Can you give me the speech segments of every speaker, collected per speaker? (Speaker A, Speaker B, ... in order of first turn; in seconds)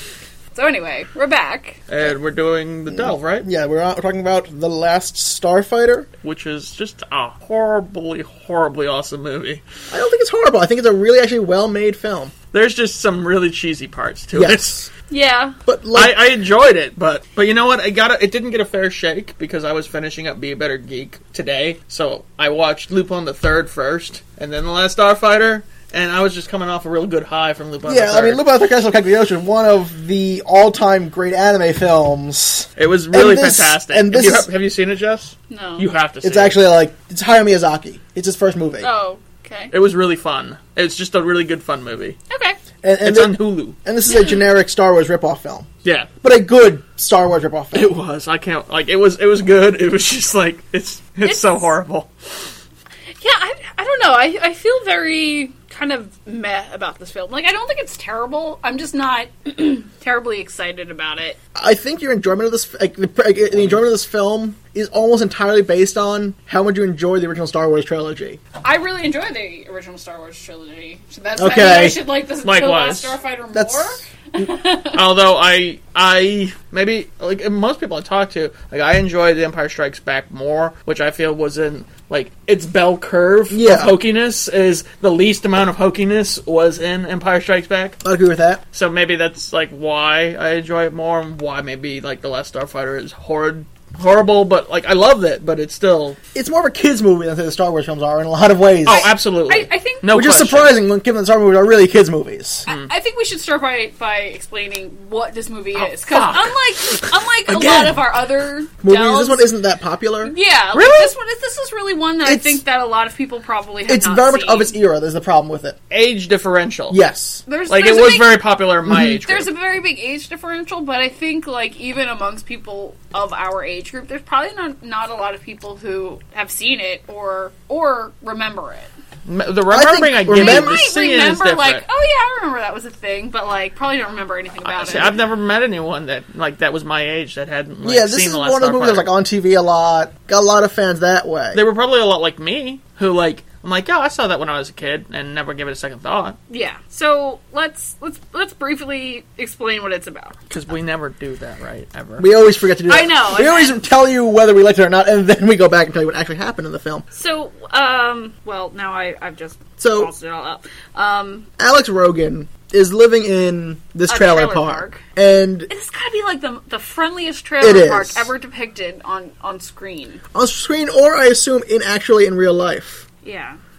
Speaker A: 0.5-1.8, 15.1-15.6, 35.5-35.9, 38.8-39.7, 42.3-42.6, 51.2-51.7, 53.2-61.4, 68.6-75.0, 98.8-100.4, 102.7-109.4, 110.2-114.7, 117.5-118.4, 119.2-128.9, 130.3-135.2, 146.5-150.4, 152.9-153.8, 157.1-161.5, 164.1-165.0, 165.7-170.2, 173.2-173.6
Speaker B: 1.9-3.5, 6.2-9.6, 12.5-14.9, 15.9-28.5, 32.8-36.6, 39.7-42.2, 43.0-43.8, 45.8-46.1, 47.7-52.1, 72.4-73.2, 74.9-88.0, 88.7-96.2, 98.8-100.8, 105.8-106.5, 115.9-117.0, 117.7-119.5, 129.3-131.8, 134.7-139.1, 141.5-146.4, 150.5-152.3
Speaker C: 2.9-6.1, 9.9-12.3, 14.3-14.8, 15.7-16.2, 27.9-34.5, 36.2-38.9, 42.8-45.7, 46.2-48.0, 61.5-68.4, 71.4-72.0, 73.5-74.4, 83.5-84.0, 88.0-88.6, 96.3-99.0, 100.1-102.7, 107.5-108.0, 108.8-111.1, 112.2-112.6, 113.9-115.8, 116.9-117.4, 129.7-130.8, 137.8-141.6, 152.2-157.1, 159.8-160.1, 161.6-165.7, 167.6-168.3, 170.3-173.1